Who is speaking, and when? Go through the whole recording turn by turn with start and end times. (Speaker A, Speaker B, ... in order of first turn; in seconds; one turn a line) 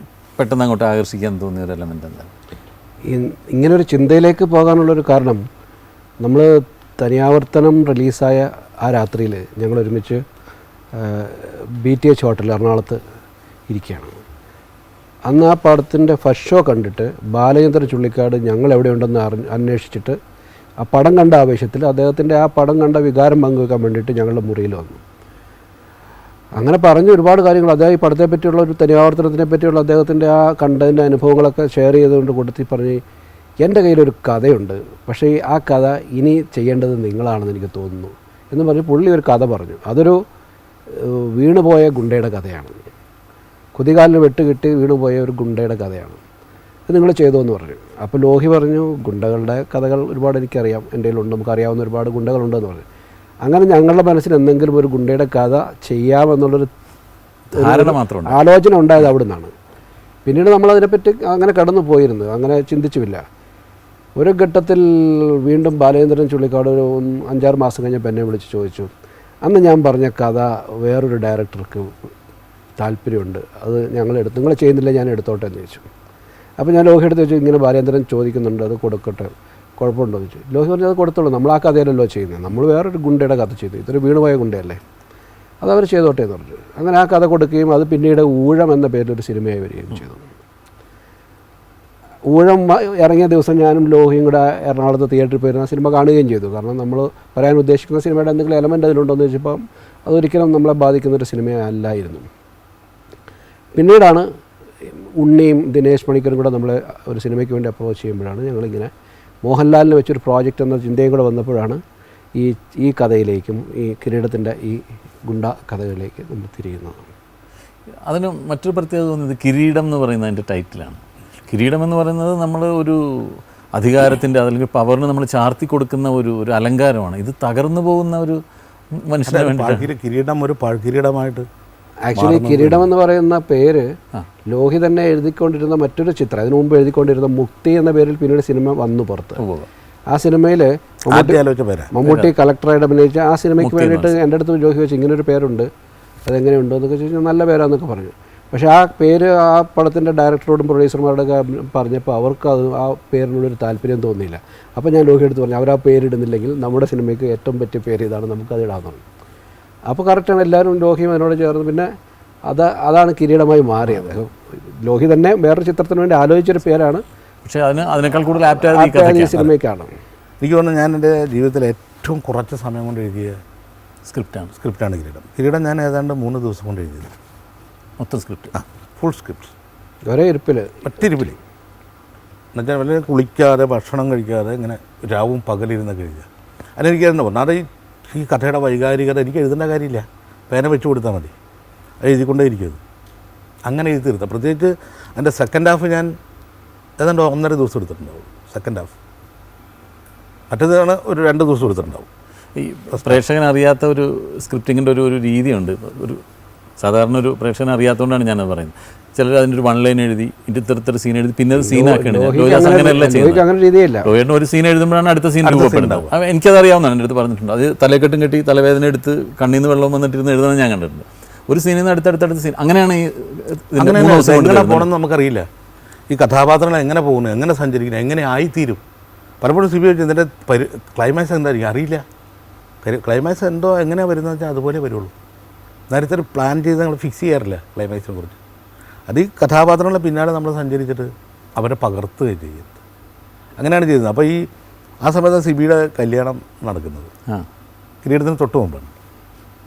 Speaker A: 0.4-2.3
Speaker B: 3.1-5.4
Speaker B: 6.2-10.2
Speaker B: 10.9-13.0
Speaker B: 13.7-14.2
Speaker B: 15.3-20.2
Speaker B: 20.8-25.0
Speaker B: 26.6-33.0
Speaker B: 33.6-40.2
Speaker B: 40.9-42.8
Speaker B: 43.8-46.2
Speaker B: 46.9-52.8
Speaker B: 53.5-56.7
Speaker A: 57.5-58.4
Speaker B: 57.5-59.5
Speaker B: 60.3-63.2
Speaker B: 64.2-68.9
Speaker B: 69.4-71.9
Speaker B: 72.8-75.9
Speaker B: 76.6-84.8
Speaker B: 85.6-90.3
Speaker B: 92.3-102.3
Speaker B: 103.7-104.3
Speaker B: 105.0-108.9
Speaker B: 109.4-111.8
Speaker B: 112.4-117.0
Speaker A: 118.1-128.4
Speaker A: 129.0-129.9
Speaker C: 129.3-131.5
Speaker B: 132.1-133.8
Speaker C: 132.1-132.9
Speaker B: 134.5-139.4
Speaker A: 139.4-139.7
Speaker B: 140.1-145.7
Speaker C: 141.1-141.9
Speaker A: 142.0-142.3
Speaker A: 143.6-144.1
Speaker B: 146.3-159.0
Speaker B: 159.9-161.9
Speaker B: 162.5-167.0
Speaker A: 167.4-169.5
Speaker B: 168.6-169.9
Speaker C: 170.4-173.4
Speaker A: 174.1-174.5
Speaker C: 174.6-177.1
Speaker A: 178.0-178.6
Speaker C: 178.6-179.5
Speaker B: 180.1-180.9
Speaker C: 180.8-181.4
Speaker C: 182.6-191.3
Speaker C: 192.0-192.8
Speaker C: 193.7-196.1
Speaker C: 197.0-198.9
Speaker C: 200.5-202.1
Speaker A: 202.6-206.2
Speaker C: 202.9-203.2
Speaker A: 206.8-213.4
Speaker B: 211.6-214.2
Speaker A: 214.1-224.9
Speaker C: 215.4-216.1
Speaker C: 223.8-225.5
Speaker C: 226.1-228.8
Speaker C: 229.4-232.0
Speaker C: 232.8-235.1
Speaker C: 235.9-238.4
Speaker C: 239.1-242.8
Speaker C: 243.6-244.5
Speaker C: 245.0-247.1
Speaker C: 248.0-248.9